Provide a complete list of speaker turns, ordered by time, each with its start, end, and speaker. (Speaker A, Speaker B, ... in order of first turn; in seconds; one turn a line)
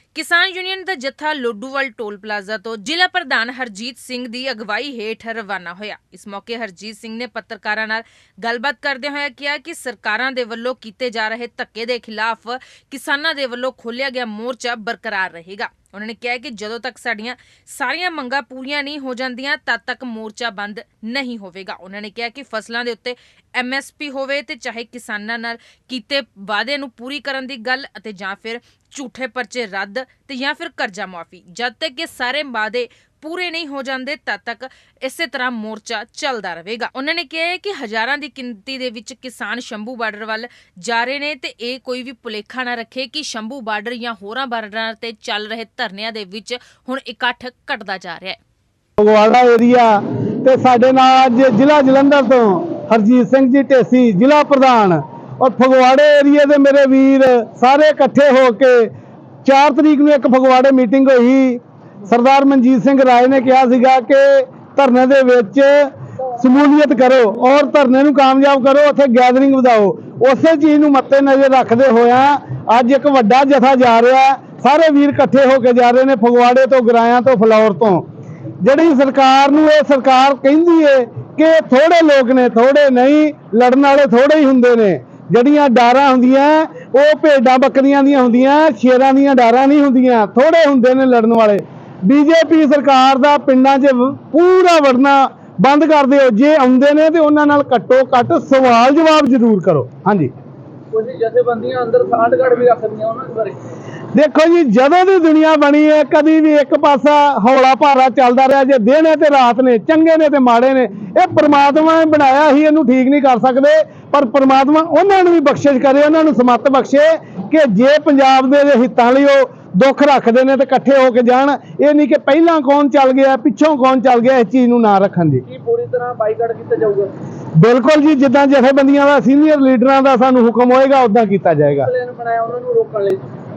Speaker A: 0.1-48.4
Speaker B: 49.0-58.9
Speaker B: 59.4-78.0
Speaker B: 78.6-100.3
Speaker C: 100.9-103.7
Speaker B: 104.1-125.4
Speaker C: 125.5-127.1
Speaker B: 127.6-131.9
Speaker C: 131.7-133.3